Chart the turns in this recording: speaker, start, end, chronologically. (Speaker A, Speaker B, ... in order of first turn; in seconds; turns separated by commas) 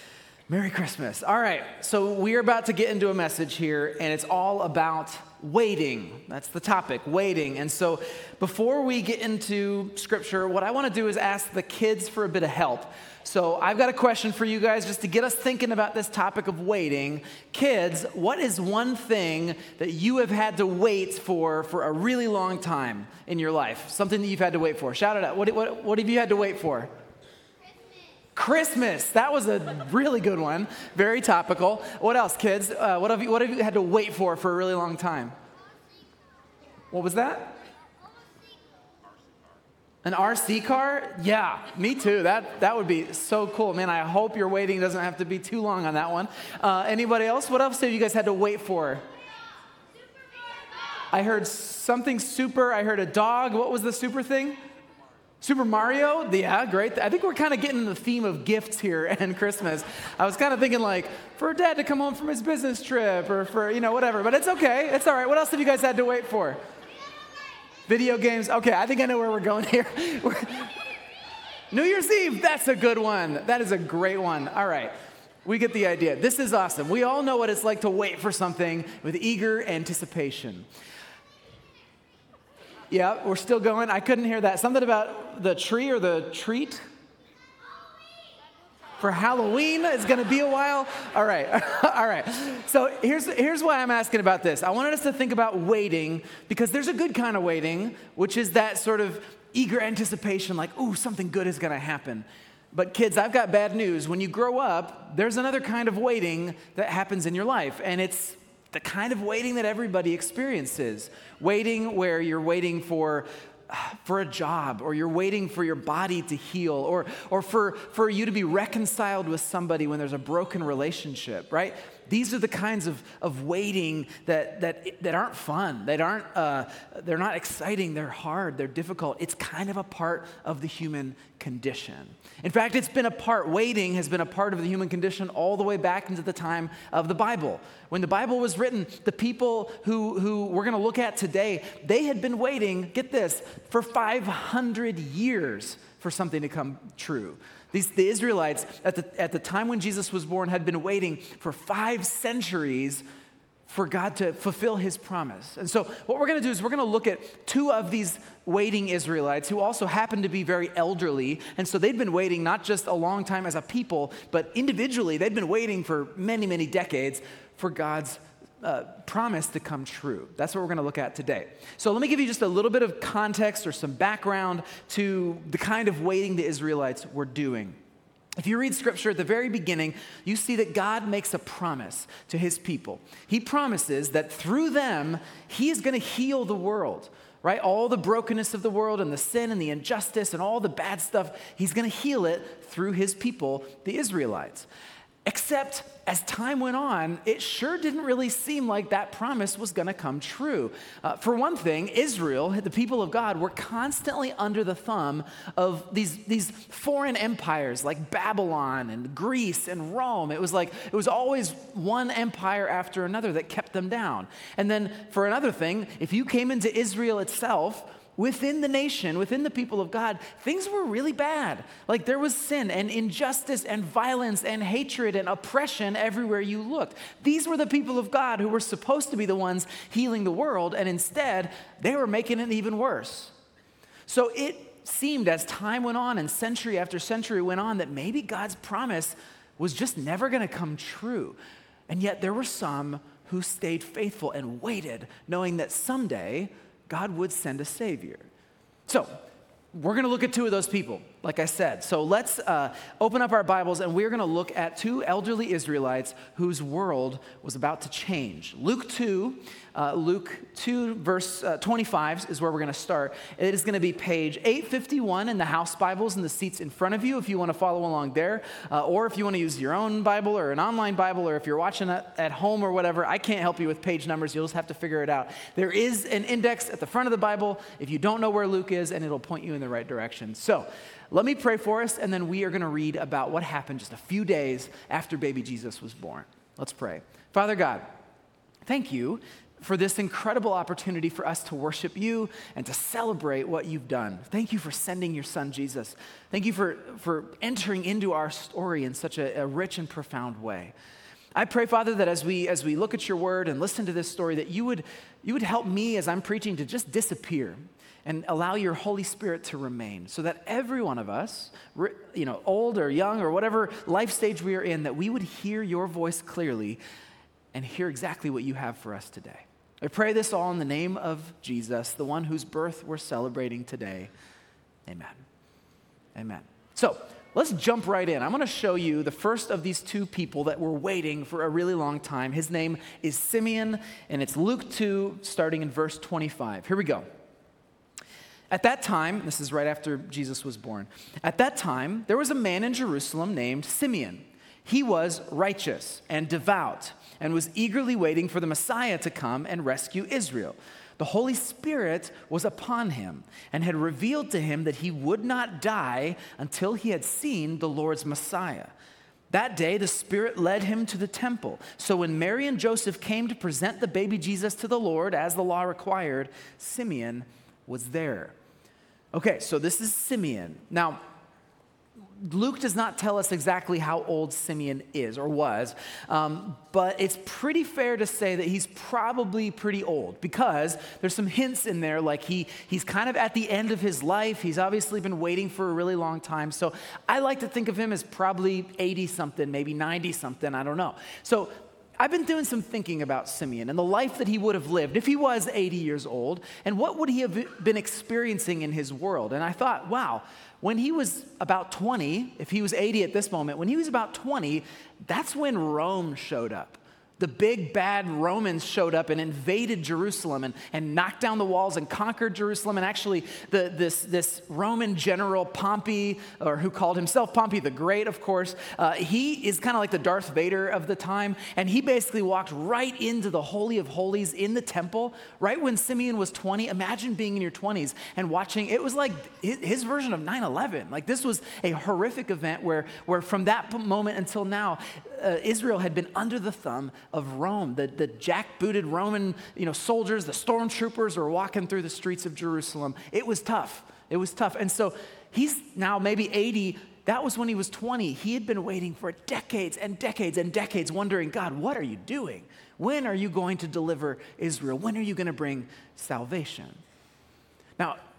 Speaker A: 0.5-26.9, Speaker A: 28.3-35.3, Speaker A: 36.9-37.6, Speaker A: 40.0-49.0, Speaker A: 51.1-54.6, Speaker A: 55.4-66.6, Speaker A: 67.9-70.8, Speaker A: 71.7-74.9, Speaker A: 75.4-80.7, Speaker A: 82.9-86.8, Speaker A: 89.0-153.0, Speaker A: 153.7-177.8, Speaker A: 178.4-194.7, Speaker A: 195.2-233.3, Speaker A: 234.1-241.4, Speaker A: 241.9-248.3, Speaker A: 248.9-249.2, Speaker A: 249.7-287.9, Speaker A: 288.6-300.7, Speaker A: 301.4-316.8, Speaker A: 317.5-324.1, Speaker A: 324.9-325.2, Speaker A: 326.1-337.1, Speaker A: 338.5-358.7, Speaker A: 359.3-368.3, Speaker A: 369.1-371.0, Speaker A: 372.2-456.8